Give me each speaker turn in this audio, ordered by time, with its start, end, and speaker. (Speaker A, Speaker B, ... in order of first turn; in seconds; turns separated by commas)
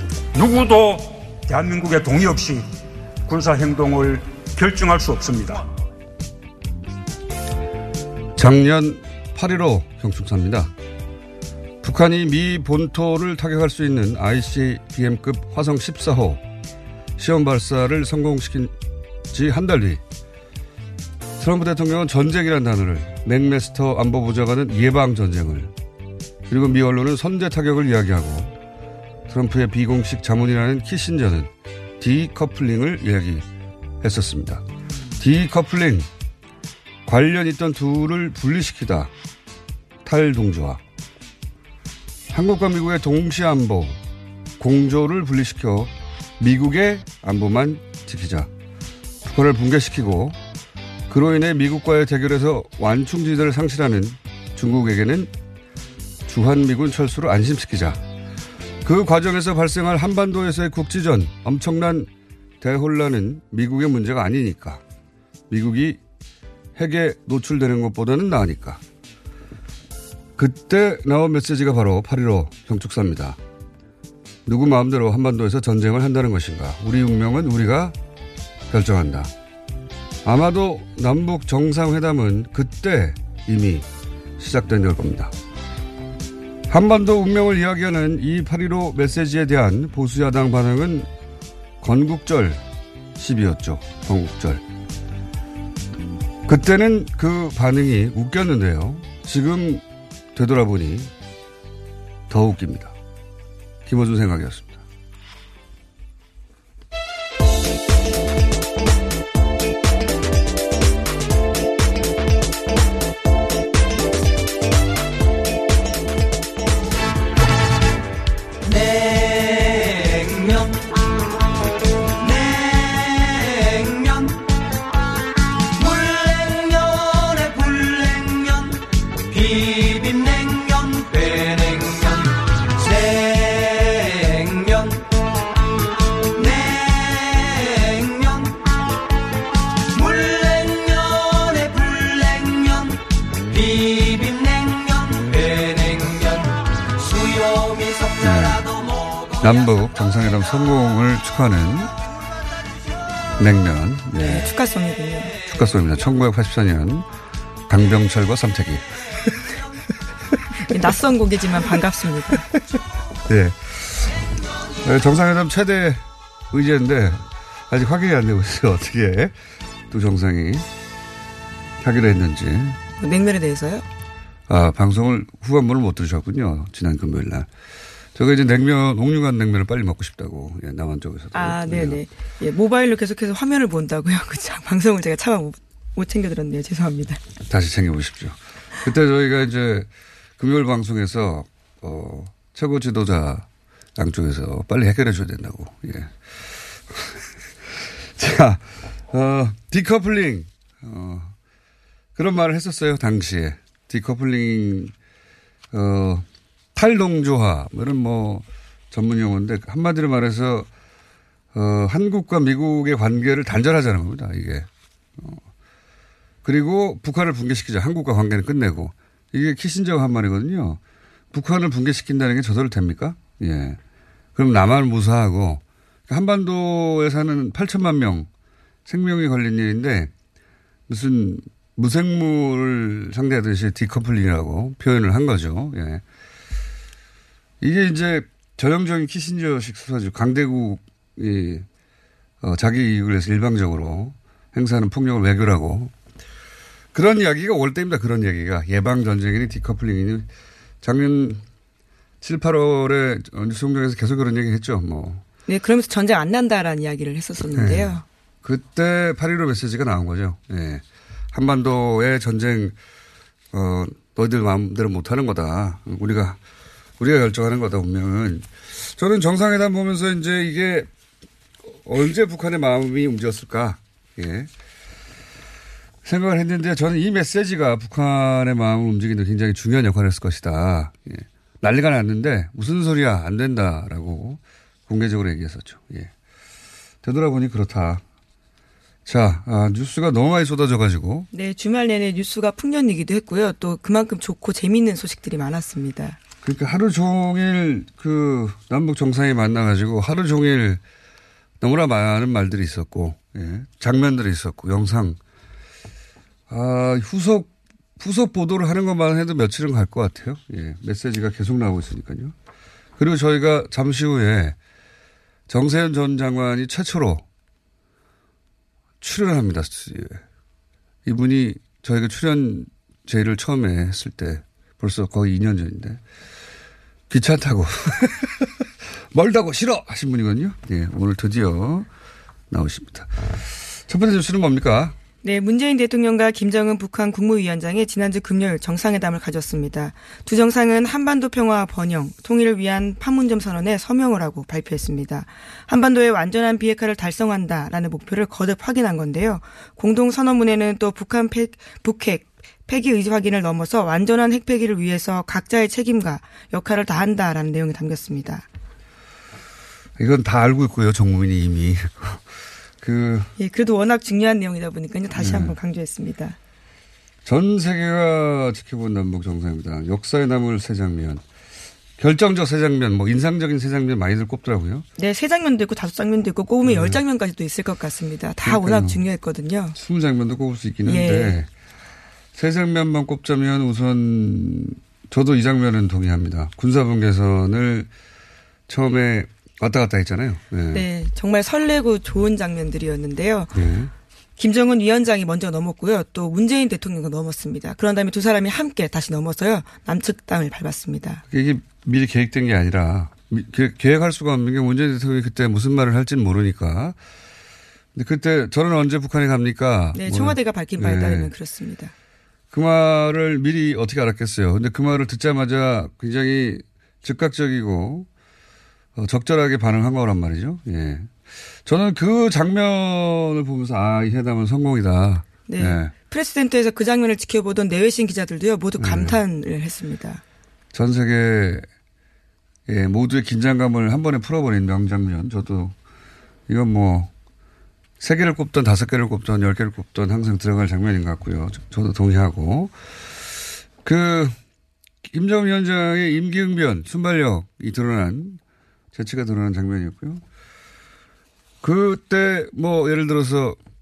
Speaker A: 0.3-2.7, Speaker A: 3.3-5.7, Speaker B: 8.4-10.7, Speaker B: 11.8-16.4, Speaker B: 17.2-18.8, Speaker B: 19.3-20.0, Speaker B: 21.4-25.7, Speaker B: 26.5-28.5, Speaker B: 29.3-33.5, Speaker B: 34.0-34.6, Speaker B: 35.2-36.1, Speaker B: 37.1-39.1, Speaker B: 40.0-40.8, Speaker B: 42.3-44.0, Speaker B: 44.6-48.5, Speaker B: 49.2-50.4, Speaker B: 51.1-55.3, Speaker B: 56.3-58.0, Speaker B: 58.8-62.1, Speaker B: 62.6-64.8, Speaker B: 65.5-66.0, Speaker B: 66.8-68.8, Speaker B: 70.4-73.4, Speaker B: 74.5-78.0, Speaker B: 78.7-79.3, Speaker B: 80.2-83.9, Speaker B: 84.4-85.3, Speaker B: 86.7-91.1, Speaker B: 91.8-92.6, Speaker B: 93.2-94.6, Speaker B: 96.5-101.1, Speaker B: 102.3-102.9, Speaker B: 103.9-104.8, Speaker B: 148.2-148.7, Speaker B: 149.4-151.9, Speaker B: 153.4-154.5, Speaker C: 154.2-155.4, Speaker B: 155.4-157.1, Speaker B: 157.7-159.4, Speaker C: 160.7-162.4, Speaker B: 163.3-164.1, Speaker B: 164.8-169.3, Speaker B: 169.9-170.7, Speaker B: 171.8-172.8, Speaker C: 173.0-173.9, Speaker B: 174.5-177.5, Speaker B: 178.2-182.0, Speaker C: 181.3-187.2, Speaker B: 187.5-196.2, Speaker B: 196.9-201.3, Speaker B: 202.2-204.9, Speaker B: 205.7-210.7, Speaker B: 211.5-215.4, Speaker B: 216.4-220.8, Speaker B: 221.3-223.8, Speaker B: 224.4-228.3, Speaker B: 228.9-230.1, Speaker B: 230.9-236.0, Speaker B: 237.6-241.7, Speaker B: 242.4-245.9, Speaker B: 246.9-250.3, Speaker B: 250.8-251.4, Speaker B: 252.2-255.2, Speaker C: 255.5-258.0, Speaker B: 257.4-262.8, Speaker B: 263.5-266.4, Speaker B: 267.0-270.9, Speaker B: 271.8-274.5, Speaker B: 276.1-286.1, Speaker B: 287.0-288.0, Speaker B: 289.1-291.3, Speaker C: 291.3-296.2, Speaker B: 296.4-300.8, Speaker B: 301.6-305.2, Speaker B: 306.5-312.3, Speaker B: 313.0-314.6, Speaker B: 315.5-317.2, Speaker B: 319.0-320.2, Speaker B: 321.1-326.0, Speaker B: 327.1-328.5, Speaker B: 329.1-331.9, Speaker B: 332.5-335.0, Speaker C: 335.2-358.5, Speaker B: 360.0-362.3, Speaker B: 362.8-363.3, Speaker C: 363.4-366.4, Speaker B: 365.1-365.6, Speaker B: 367.2-371.2, Speaker B: 372.0-374.9, Speaker C: 375.0-379.8, Speaker B: 376.7-377.0, Speaker B: 378.4-379.0, Speaker B: 379.8-381.5, Speaker C: 380.9-381.4, Speaker B: 382.3-387.9, Speaker B: 388.7-390.9, Speaker C: 390.7-393.5, Speaker B: 393.5-393.9, Speaker C: 394.4-401.2, Speaker B: 401.3-407.0, Speaker B: 407.9-411.3, Speaker C: 409.9-411.9, Speaker B: 412.5-418.1, Speaker B: 419.0-421.1, Speaker B: 421.6-425.9, Speaker C: 425.5-430.2, Speaker B: 428.8-429.2, Speaker B: 430.7-431.7, Speaker B: 432.7-435.7, Speaker B: 436.5-437.1, Speaker B: 438.0-442.7, Speaker B: 443.8-444.4, Speaker B: 445.1-448.4, Speaker B: 448.9-450.2, Speaker B: 451.6-453.6